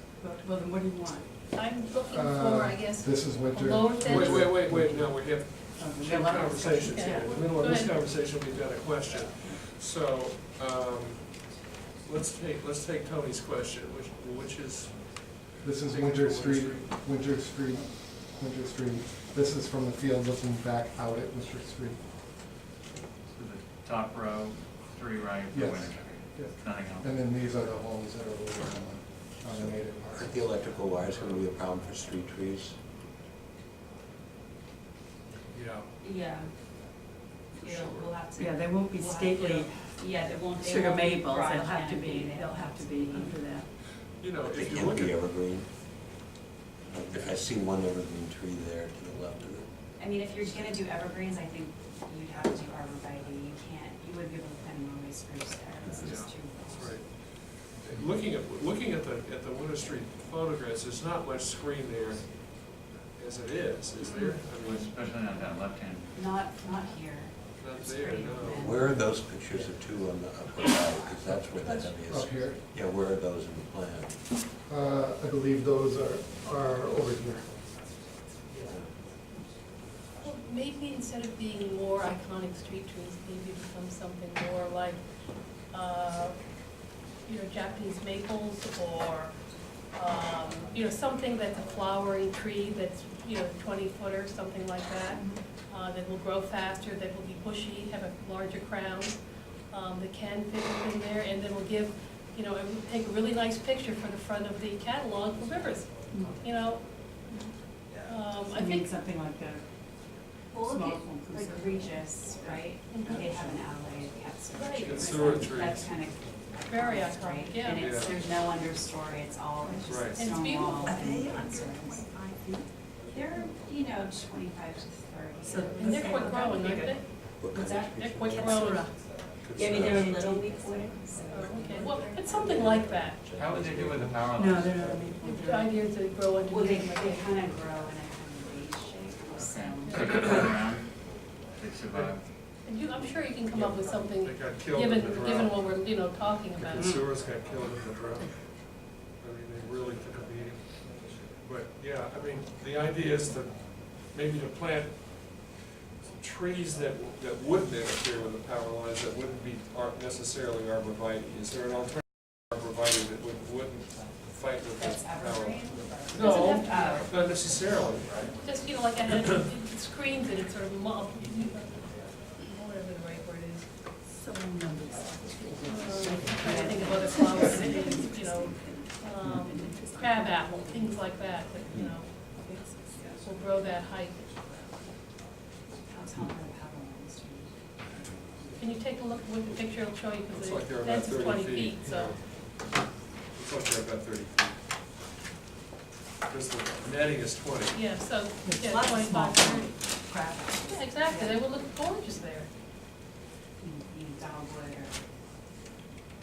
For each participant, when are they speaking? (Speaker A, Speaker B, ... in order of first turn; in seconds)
Speaker A: 0.2-1.3, 5.7-7.6, 38.4-40.0, 40.5-43.7, 108.5-109.6, 110.6-112.1, 112.9-113.5, 120.8-122.7, 125.4-127.0, 128.3-129.0, 134.3-135.8, 146.7-147.1, 174.1-181.0, 182.4-183.1, 198.4-201.4
Speaker B: 1.5-4.5, 6.8-7.9, 80.2-85.0, 85.7-86.5, 87.2-89.3, 89.9-106.8, 108.0-108.9, 112.9-113.3, 114.5-115.3, 116.7-118.0, 120.1-121.1, 125.8-127.3, 128.0-128.9, 131.3-133.2, 135.2-137.2, 142.6-147.0, 166.2-167.1, 168.3-173.7, 175.6-182.5, 183.2-184.7, 188.6-192.1, 197.7-200.0, 200.6-202.5
Speaker C: 2.1-5.0, 15.6-22.0, 25.5-30.4, 68.8-69.1, 72.0-72.6, 74.7-77.5
Speaker D: 4.0-11.5, 12.0-16.9, 31.1-31.4, 35.5-35.9, 37.6-38.1, 44.1-45.2, 56.0-64.9, 67.6-68.7, 114.8-115.9, 117.7-118.1, 119.8-120.3, 129.3-130.4, 143.5-145.7, 146.6-148.4, 149.2-150.8, 151.4-155.4, 156.0-168.3, 190.3-192.2, 193.3-194.6, 196.3-197.8
Speaker E: 23.3-27.1, 64.6-66.1, 133.3-134.9, 139.3-142.3
Speaker F: 29.5-32.8, 44.4-45.7, 46.9-49.7, 68.5-74.2, 127.4-128.8, 129.6-130.3, 133.5-134.1
Speaker G: 36.0-36.5, 37.5-43.4, 50.0-57.0, 66.1-68.9, 110.5-122.0, 123.1-126.5, 127.5-128.0, 129.5-132.4, 136.5-140.3, 164.8-167.2, 176.6-177.3, 185.9-187.6, 203.6-205.0